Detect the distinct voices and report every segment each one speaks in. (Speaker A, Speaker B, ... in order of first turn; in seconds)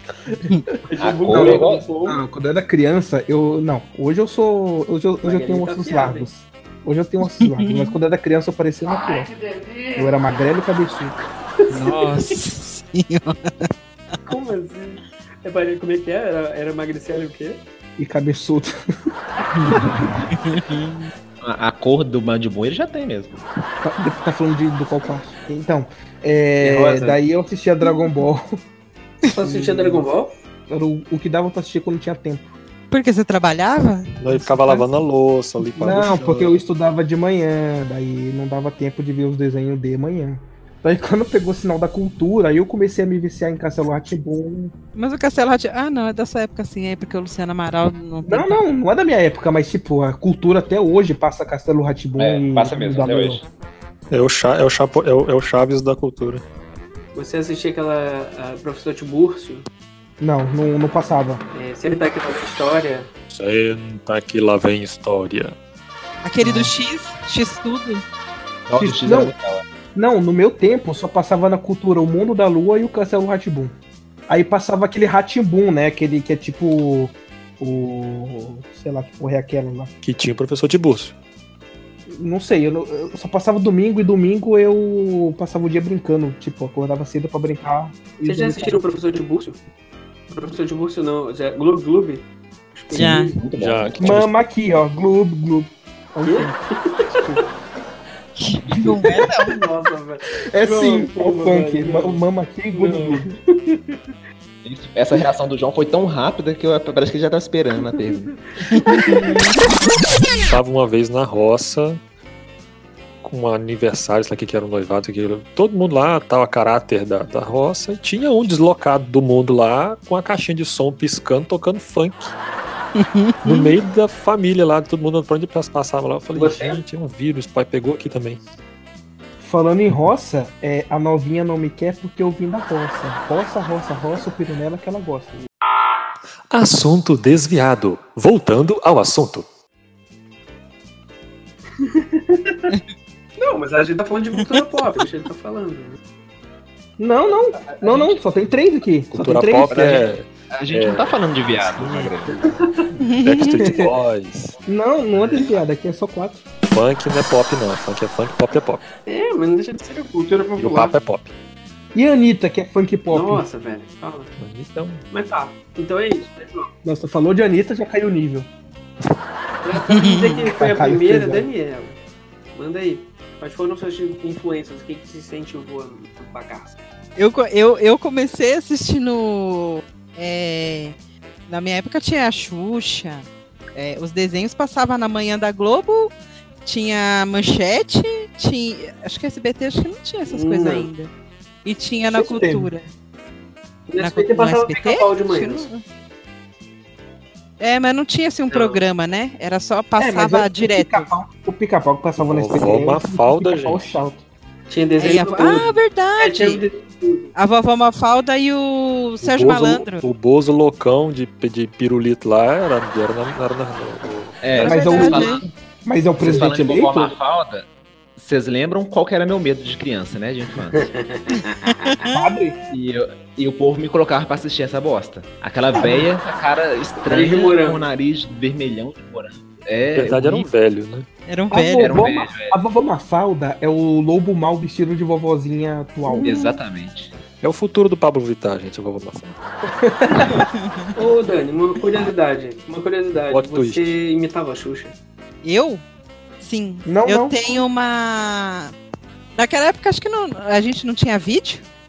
Speaker A: 0.9-2.2, 5.2-6.3, 9.0-10.1, 11.6-12.4, 14.2-17.6, 26.6-27.1, 29.3-30.3, 57.1-59.7, 61.5-63.1, 88.2-89.6, 90.3-93.4, 96.2-97.2, 99.4-102.2, 102.7-103.8, 126.3-126.8, 141.8-142.7, 143.4-146.0, 159.1-160.9, 163.1-164.3, 165.1-166.7, 169.6-172.0, 172.5-176.8, 190.3-190.9, 193.9-195.7, 198.5-198.8, 204.7-207.3, 220.8-221.9, 227.1-227.9, 229.9-230.5, 241.0-244.9
Speaker B: 1.0-1.9, 19.7-20.1, 21.4-23.4, 26.6-27.1, 52.2-53.4, 68.7-69.6, 92.9-94.2, 104.6-108.3, 147.7-148.2, 149.7-152.4, 155.2-155.6, 214.4-215.4, 216.2-220.9, 222.7-230.3, 231.8-232.6, 236.2-237.2
Speaker C: 1.3-9.3, 9.9-11.1, 18.0-18.7, 23.8-28.6, 29.4-30.1, 30.7-32.5, 35.8-44.7, 48.2-53.4, 60.2-61.4, 68.8-69.3, 69.9-73.7, 74.3-79.9, 82.1-88.8, 94.0-96.6, 97.1-97.4, 100.5-103.3, 129.4-135.4, 147.0-149.9, 153.6-153.9, 154.7-156.4, 161.9-163.4, 166.8-168.5, 170.6-171.5, 192.1-192.7, 200.0-204.2, 214.6-217.1, 222.1-222.6, 231.5-236.3, 239.7-240.4, 246.9-247.4
Speaker D: 7.4-7.9, 11.7-13.7, 20.4-21.1, 32.9-34.9, 35.6-36.0, 45.0-48.6, 66.2-68.0, 92.9-93.3, 98.4-99.6, 123.0-123.8, 153.0-153.6, 169.9-170.4, 177.2-180.9, 181.5-186.1, 186.6-191.1, 191.6-192.9, 194.0-195.8, 197.6-201.1, 205.0-206.6, 207.3-210.1, 214.5-215.4, 231.3-232.0, 236.1-236.6, 245.4-245.8, 246.4-248.7, 249.4-251.6
Speaker E: 34.2-36.6, 54.1-56.4, 63.3-65.6, 80.0-81.1, 93.6-94.3, 110.4-112.0, 113.2-122.3, 123.4-128.4, 136.5-139.4, 149.1-154.6, 156.6-158.9, 160.6-161.3, 164.4-165.1, 202.2-203.9, 209.2-214.8, 229.9-231.1, 237.4-239.4, 243.2-243.9